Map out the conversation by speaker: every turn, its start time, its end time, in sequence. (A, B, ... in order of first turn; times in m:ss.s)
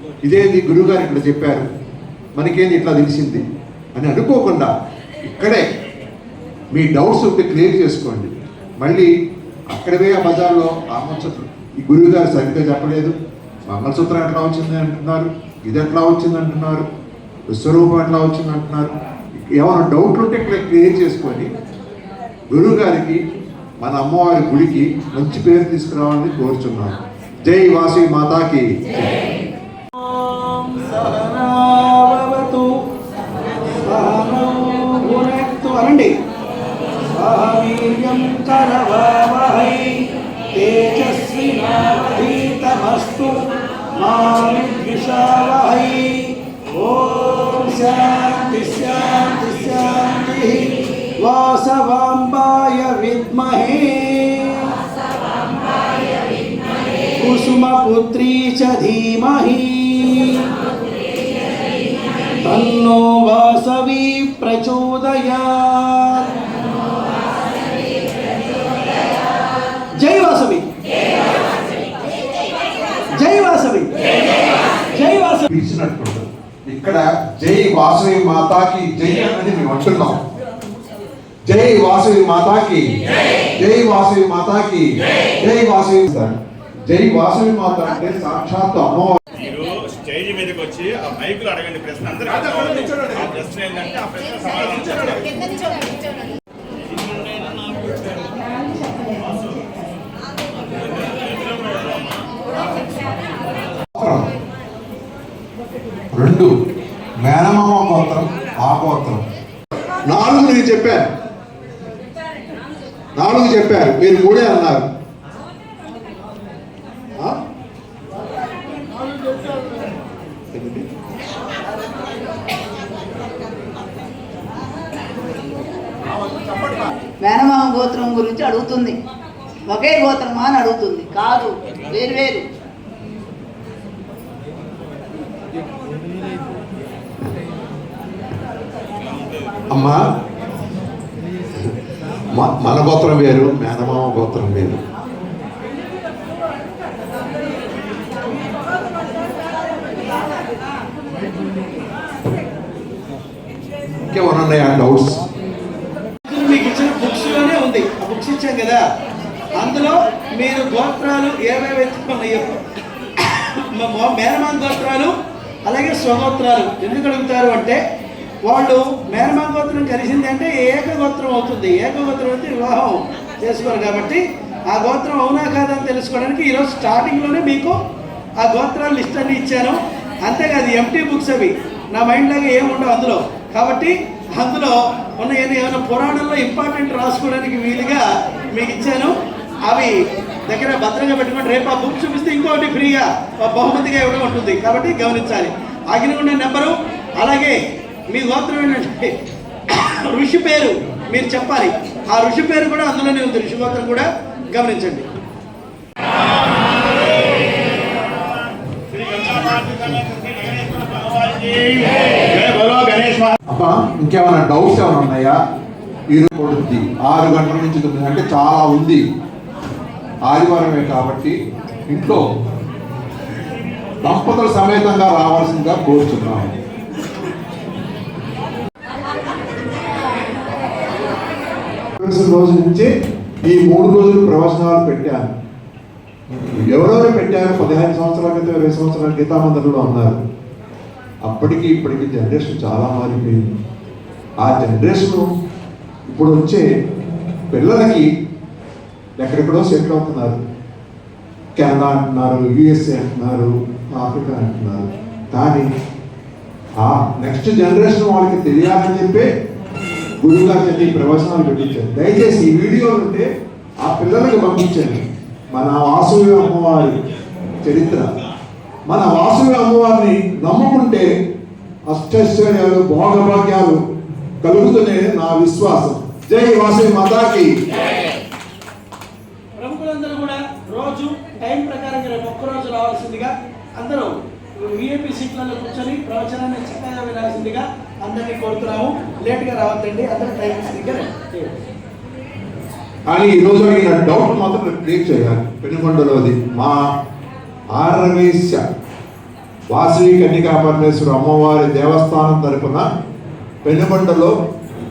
0:00.2-0:01.7 A
0:02.4-0:03.4 A
0:03.9-0:04.7 A
0:05.2-0:05.6 A
0:06.7-0:09.1 A
0:09.7-0:13.2 A
0:13.7-0:16.8 A
0:17.5-0:21.5 A
0:22.5-0:23.2 A
0:23.8-0:29.1 A
0:30.0-0:32.7 B
0:33.8-0:36.1 B
0:37.1-0:40.0 B
0:40.5-0:43.4 B
0:44.0-0:50.7 B
0:51.2-0:54.7 B
0:57.2-1:00.5 B
1:02.4-1:06.3 B
1:10.0-1:10.6 B
1:13.2-1:13.9 B
1:14.9-1:15.5 B
1:15.5-1:20.2 A
1:21.5-1:22.9 A
1:23.6-1:29.2 A
1:29.4-1:35.1 C
1:44.0-1:44.3 A
1:46.1-1:46.5 A
1:47.2-1:49.2 A
1:50.1-1:51.0 A
1:53.2-1:54.9 A
2:00.5-2:00.9 A
2:07.2-2:09.0 D
2:09.6-2:12.5 D
2:19.7-2:20.0 A
2:22.3-2:24.8 A
2:34.0-2:35.2 A
2:36.2-2:38.8 B
2:39.6-2:42.5 B
2:43.2-2:45.1 B
2:45.7-2:47.8 B
2:48.4-2:57.7 B
2:58.4-3:09.1 B
3:09.7-3:09.9 B
3:10.5-3:17.6 B
3:18.1-3:19.1 B
3:19.7-3:25.1 B
3:31.5-3:31.8 C
3:32.6-3:33.3 C
3:33.5-3:35.4 A
3:36.1-3:39.0 A
3:40.2-3:41.4 A
3:41.9-3:42.2 A
3:44.0-3:46.5 A
3:52.0-3:52.9 A
3:53.4-3:55.3 A
3:56.3-4:00.2 A
4:01.2-4:03.5 A
4:04.4-4:05.3 A
4:06.1-4:06.6 A
4:07.5-4:08.1 A
4:09.2-4:10.4 A
4:11.6-4:15.7 A
4:16.8-4:19.3 A
4:20.2-4:23.2 A
4:23.8-4:27.0 A
4:27.6-4:28.1 A
4:28.9-4:31.1 A
4:31.9-4:33.8 A
4:34.4-4:37.5 A
4:39.6-4:51.5 B
4:53.1-4:56.8 A
4:57.7-4:58.6 A
4:59.7-5:02.8 A
5:03.6-5:04.3 A